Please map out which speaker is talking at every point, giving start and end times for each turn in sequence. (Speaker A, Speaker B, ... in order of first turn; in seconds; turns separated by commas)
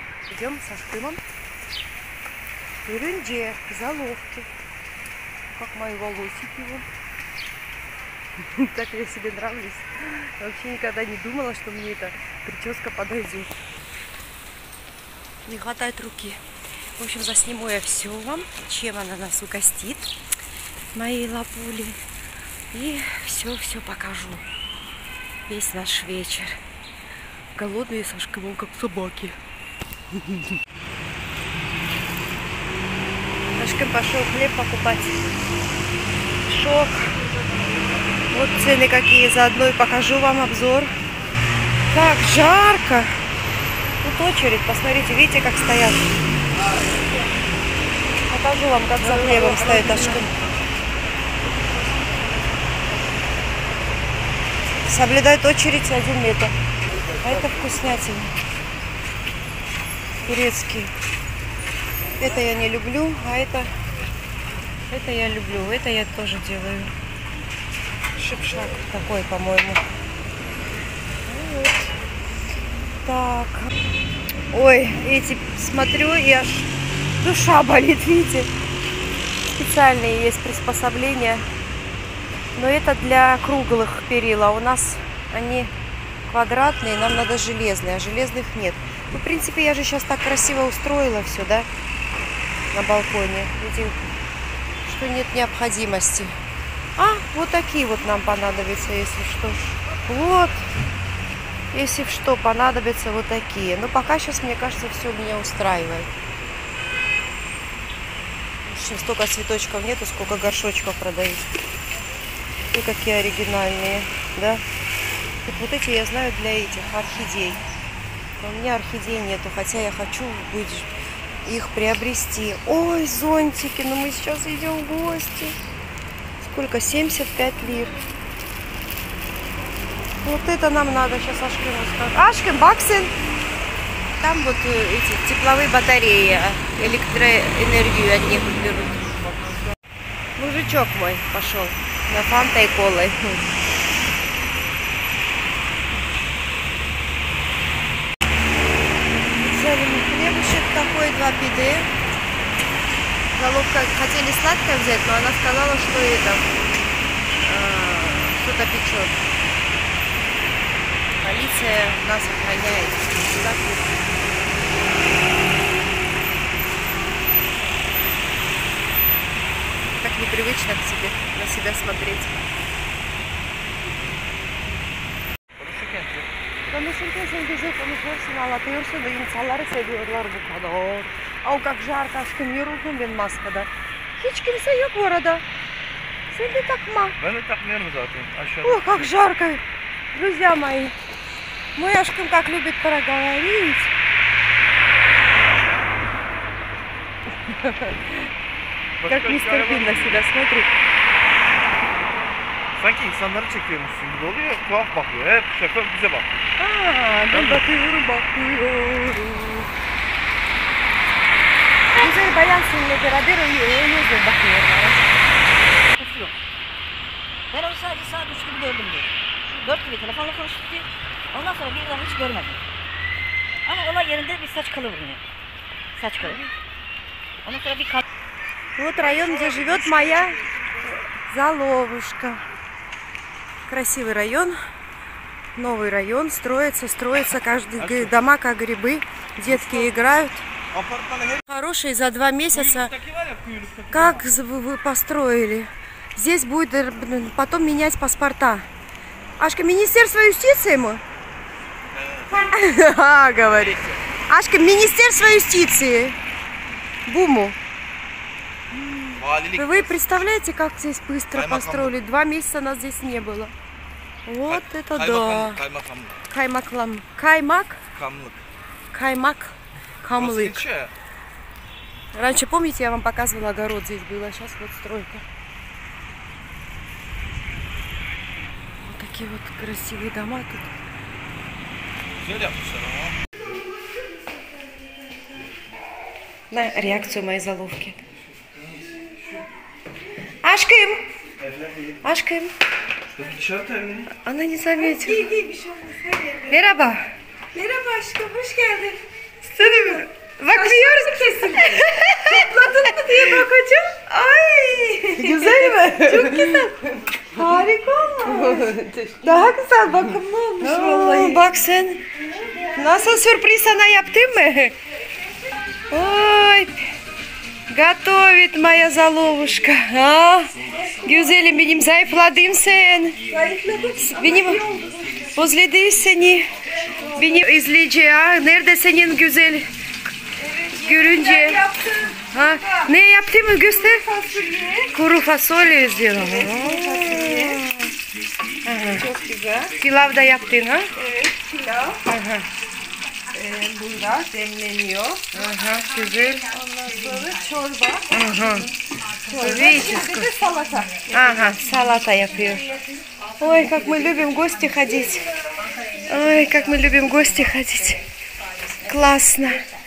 Speaker A: 0.3-1.2, Speaker A: 2.8-4.5, Speaker A: 5.5-6.9, Speaker A: 8.4-13.5, Speaker A: 15.4-16.4, Speaker A: 17.0-20.1, Speaker A: 20.9-22.0, Speaker A: 22.7-24.4, Speaker A: 25.5-26.6, Speaker A: 27.6-29.3, Speaker A: 33.5-35.3, Speaker A: 36.5-37.2, Speaker A: 38.3-40.9, Speaker A: 41.9-43.1, Speaker A: 44.0-46.1, Speaker A: 48.3-50.3, Speaker B: 49.3-50.0, Speaker A: 54.9-56.5, Speaker A: 57.2-58.4, Speaker A: 60.2-60.9, Speaker A: 62.2-63.7, Speaker A: 64.9-66.9, Speaker A: 68.2-69.8, Speaker A: 71.2-71.9, Speaker A: 73.0-73.7, Speaker A: 74.5-78.5, Speaker A: 79.5-81.5, Speaker A: 82.6-85.7, Speaker A: 86.3-91.7, Speaker A: 92.7-94.0, Speaker A: 94.8-96.3, Speaker A: 97.0-100.7, Speaker A: 101.7-106.1, Speaker A: 108.7-111.5, Speaker A: 112.7-114.6, Speaker A: 115.5-117.6, Speaker A: 118.4-120.9, Speaker A: 121.4-125.5, Speaker A: 126.4-128.0, Speaker A: 130.2-133.1, Speaker A: 134.2-139.3, Speaker A: 140.4-143.5, Speaker A: 149.3-151.9, Speaker A: 153.3-156.4, Speaker A: 157.4-159.2, Speaker A: 161.2-164.0, Speaker A: 169.9-172.4, Speaker B: 175.6-176.3, Speaker A: 176.7-185.4, Speaker A: 186.3-187.2, Speaker B: 187.2-189.1, Speaker A: 188.6-189.6, Speaker A: 190.1-190.9, Speaker A: 191.8-193.9, Speaker A: 197.4-198.3, Speaker B: 199.0-200.2, Speaker A: 199.1-200.7, Speaker B: 202.8-206.5, Speaker A: 206.6-209.7, Speaker B: 207.3-207.6, Speaker A: 212.0-215.2, Speaker C: 215.9-216.4, Speaker C: 217.5-222.6, Speaker C: 223.7-225.2, Speaker C: 226.0-226.5, Speaker C: 227.4-228.0, Speaker A: 228.8-232.4, Speaker B: 229.2-230.6, Speaker A: 233.7-234.6, Speaker A: 235.5-240.5, Speaker B: 237.8-238.1, Speaker B: 239.4-240.0, Speaker B: 240.7-241.4, Speaker A: 241.5-242.9, Speaker B: 242.5-244.1, Speaker A: 243.9-248.7, Speaker A: 249.4-251.0, Speaker B: 251.9-252.4, Speaker A: 252.4-256.2, Speaker B: 253.5-253.9, Speaker A: 257.1-257.6, Speaker A: 258.7-263.5, Speaker B: 259.1-260.2, Speaker B: 261.3-261.9, Speaker A: 264.2-265.6, Speaker B: 264.5-266.1, Speaker A: 266.3-267.8, Speaker B: 267.9-268.4, Speaker A: 268.9-270.7, Speaker B: 270.1-270.9, Speaker A: 272.1-275.2, Speaker A: 278.8-280.7, Speaker B: 282.2-283.2, Speaker A: 286.5-288.0, Speaker B: 288.6-289.3, Speaker A: 290.4-291.0, Speaker A: 292.0-292.5, Speaker B: 293.1-294.1, Speaker A: 294.1-295.3, Speaker D: 294.7-296.8, Speaker A: 296.5-297.1, Speaker D: 297.5-299.0, Speaker A: 299.5-302.3, Speaker D: 299.6-300.0, Speaker D: 300.5-311.5, Speaker A: 305.2-306.7, Speaker A: 308.3-309.1, Speaker A: 310.6-312.0, Speaker D: 312.1-313.2, Speaker A: 312.8-314.8, Speaker D: 314.9-316.1, Speaker A: 315.9-316.8, Speaker A: 317.7-323.2, Speaker D: 320.7-321.3, Speaker D: 323.3-325.4, Speaker A: 324.1-324.6, Speaker A: 325.3-326.5, Speaker D: 326.7-327.5, Speaker A: 327.1-329.6, Speaker D: 330.4-332.9, Speaker A: 330.8-331.6, Speaker A: 332.3-334.0, Speaker D: 333.6-334.9, Speaker A: 334.9-337.9, Speaker D: 336.1-337.6, Speaker A: 338.6-339.1, Speaker D: 338.9-339.7, Speaker A: 339.8-340.9, Speaker D: 340.9-342.1, Speaker A: 342.1-342.5, Speaker D: 343.3-345.3, Speaker A: 345.3-346.5, Speaker D: 346.5-348.1, Speaker A: 348.1-348.7, Speaker D: 349.2-351.1, Speaker A: 349.4-350.3, Speaker A: 351.1-352.7, Speaker A: 353.4-355.3, Speaker A: 356.1-358.0, Speaker A: 358.8-359.6